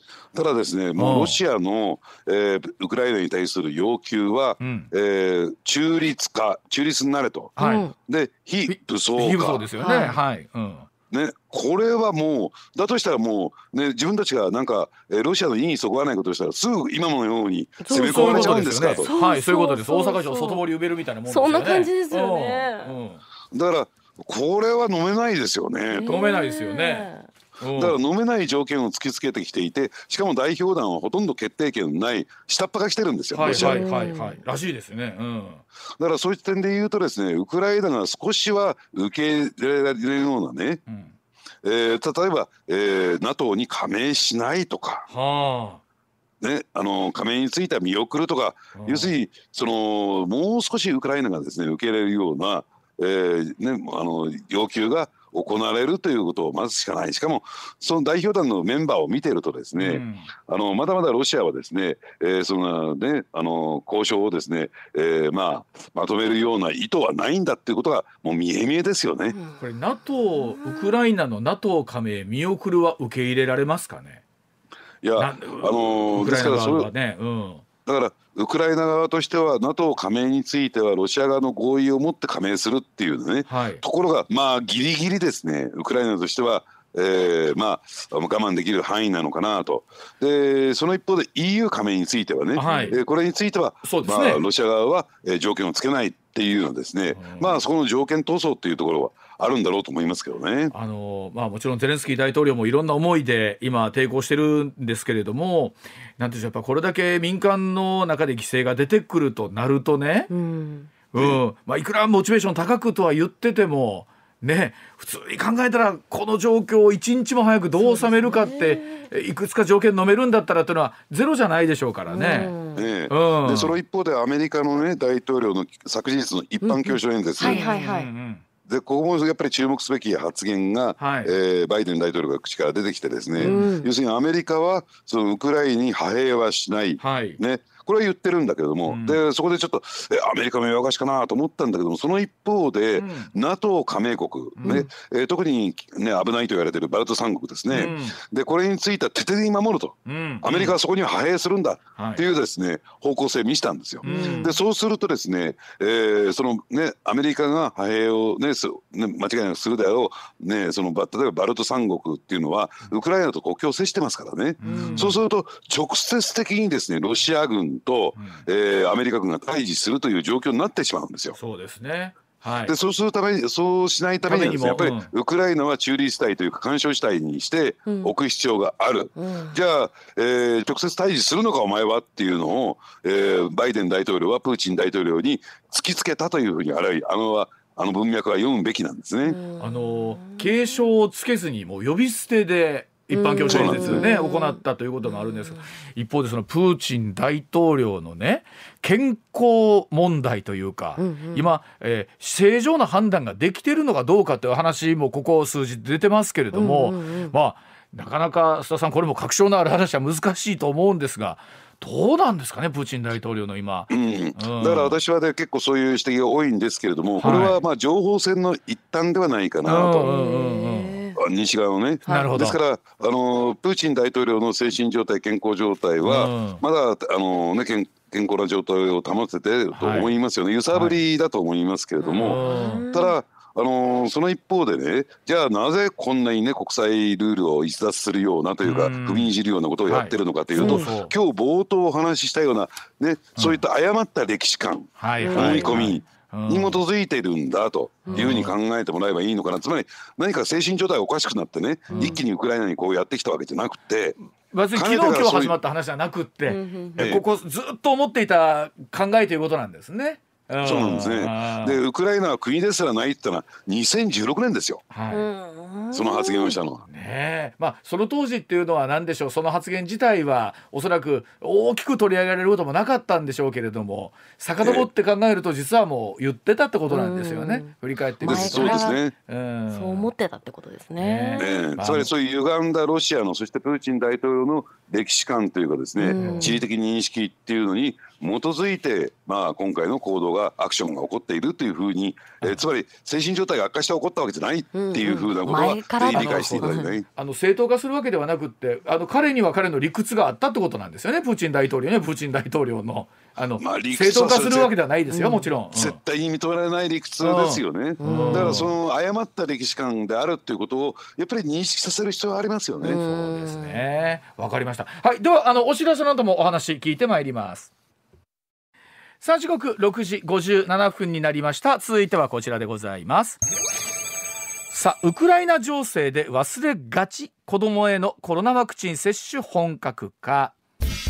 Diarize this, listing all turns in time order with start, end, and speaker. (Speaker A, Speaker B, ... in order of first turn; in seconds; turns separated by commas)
Speaker A: 0.3-7.5, Speaker B: 1.0-1.4, Speaker B: 4.6-4.9, Speaker B: 7.6-7.9, Speaker C: 7.6-7.9, Speaker A: 8.1-9.7, Speaker B: 8.7-10.9, Speaker C: 9.8-10.2, Speaker A: 11.1-19.1, Speaker C: 17.8-20.7, Speaker B: 17.9-23.2, Speaker C: 21.3-22.9, Speaker A: 23.5-26.1, Speaker C: 25.9-27.3, Speaker B: 26.0-28.0, Speaker A: 27.8-33.9, Speaker B: 33.3-35.6, Speaker C: 33.5-34.4, Speaker A: 36.0-40.8, Speaker B: 40.9-41.1, Speaker A: 41.6-45.1, Speaker B: 45.1-45.8, Speaker A: 46.4-69.4, Speaker B: 48.7-49.1, Speaker B: 59.8-60.3, Speaker B: 69.6-74.2, Speaker C: 70.5-70.8, Speaker A: 75.0-76.9, Speaker B: 75.2-77.6, Speaker A: 77.9-100.7, Speaker B: 83.5-83.8, Speaker B: 92.5-93.0, Speaker C: 92.6-93.0, Speaker B: 93.8-94.4, Speaker B: 97.2-97.6, Speaker B: 100.7-110.3, Speaker C: 110.3-110.9, Speaker B: 111.1-122.5, Speaker A: 111.2-111.4, Speaker C: 117.8-119.0, Speaker C: 122.1-122.9, Speaker A: 122.8-127.6, Speaker B: 123.1-123.8, Speaker C: 126.6-128.1, Speaker B: 127.4-128.4, Speaker A: 128.7-171.4, Speaker B: 131.0-131.3, Speaker B: 133.4-133.7, Speaker C: 133.4-133.9, Speaker B: 137.0-137.4, Speaker B: 138.9-139.2, Speaker B: 143.0-143.3, Speaker B: 144.6-144.9, Speaker C: 144.6-144.9, Speaker B: 147.7-148.2, Speaker B: 150.1-150.8, Speaker B: 152.0-152.2, Speaker B: 154.0-154.5, Speaker C: 154.0-154.6, Speaker B: 164.6-165.2, Speaker C: 164.6-165.1, Speaker B: 168.2-168.4, Speaker B: 171.4-172.8, Speaker A: 172.7-189.4, Speaker B: 174.2-175.1, Speaker C: 177.9-178.1, Speaker C: 179.2-179.6, Speaker C: 189.2-190.5, Speaker B: 189.6-215.0, Speaker C: 193.1-195.6, Speaker A: 193.5-194.1, Speaker C: 201.0-201.5, Speaker C: 206.5-207.3, Speaker A: 213.9-220.1, Speaker B: 217.2-217.6, Speaker B: 219.7-221.0, Speaker C: 220.0-221.2, Speaker A: 221.2-254.2, Speaker B: 222.1-222.6, Speaker B: 226.0-226.6, Speaker B: 229.7-230.2, Speaker B: 230.7-231.0, Speaker C: 232.0-233.2, Speaker B: 232.2-232.8, Speaker B: 238.6-241.1, Speaker C: 240.6-240.9, Speaker B: 243.4-243.6, Speaker B: 245.0-246.8, Speaker C: 245.2-245.8, Speaker C: 248.0-248.3, Speaker B: 248.1-248.6, Speaker B: 251.9-252.2, Speaker C: 251.9-252.2, Speaker B: 254.5-261.8, Speaker A: 254.7-255.5, Speaker C: 256.5-257.1, Speaker A: 257.0-257.2, Speaker A: 260.6-264.8, Speaker B: 264.9-265.3, Speaker C: 265.1-266.6, Speaker A: 265.9-266.9, Speaker B: 266.9-280.1, Speaker A: 274.6-274.9, Speaker C: 276.9-279.0, Speaker A: 278.2-279.1, Speaker C: 279.7-281.6, Speaker B: 281.0-282.1, Speaker A: 281.4-297.1, Speaker C: 286.0-286.6, Speaker B: 286.2-286.6, Speaker C: 294.7-296.9, Speaker B: 295.9-306.0, Speaker A: 303.6-304.7, Speaker C: 305.1-305.5, Speaker A: 305.7-313.0, Speaker B: 307.2-308.7, Speaker C: 308.0-308.7, Speaker C: 312.8-313.8, Speaker B: 312.9-317.7, Speaker B: 319.2-323.4, Speaker B: 324.7-330.6